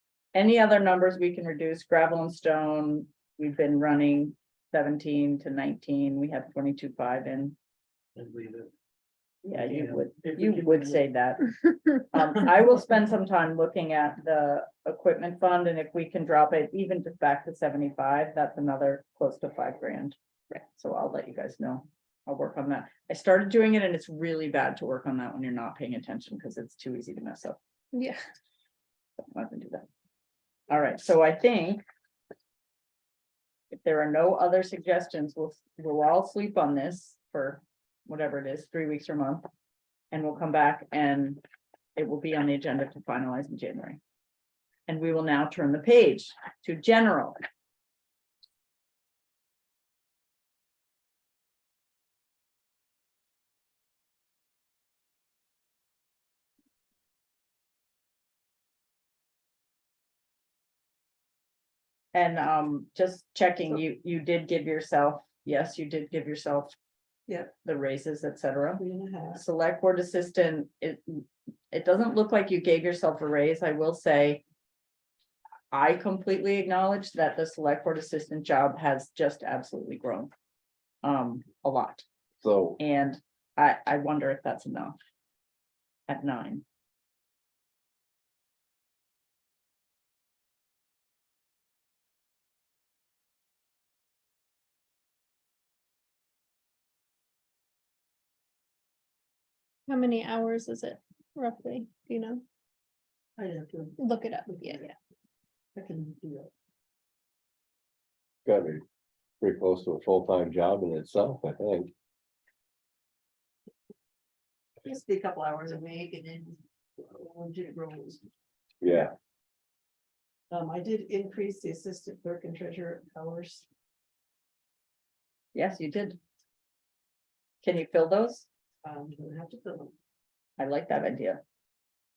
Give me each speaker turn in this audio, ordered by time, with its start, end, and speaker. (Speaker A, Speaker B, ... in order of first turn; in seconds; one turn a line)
Speaker A: 0.3-7.6
Speaker B: 8.2-8.7
Speaker A: 9.4-27.6
Speaker B: 9.5-11.0
Speaker C: 27.9-28.2
Speaker A: 29.2-29.9
Speaker A: 30.7-31.8
Speaker A: 33.7-39.5
Speaker A: 40.1-41.4
Speaker A: 42.0-44.0
Speaker A: 44.9-47.4
Speaker A: 62.1-66.8
Speaker D: 67.3-67.5
Speaker A: 67.6-68.8
Speaker D: 68.8-69.4
Speaker A: 69.3-74.4
Speaker A: 75.7-80.3
Speaker A: 81.0-82.0
Speaker E: 82.4-82.8
Speaker A: 82.8-85.0
Speaker A: 86.1-86.6
Speaker C: 99.9-102.4
Speaker D: 103.4-104.9
Speaker C: 104.0-104.8
Speaker D: 105.8-106.5
Speaker E: 108.5-108.8
Speaker E: 109.4-111.9
Speaker D: 114.8-118.2
Speaker E: 118.8-119.1
Speaker D: 120.5-123.7
Speaker A: 125.5-126.2
Speaker A: 127.6-128.5
Speaker D: 128.8-129.9
Speaker A: 130.6-131.4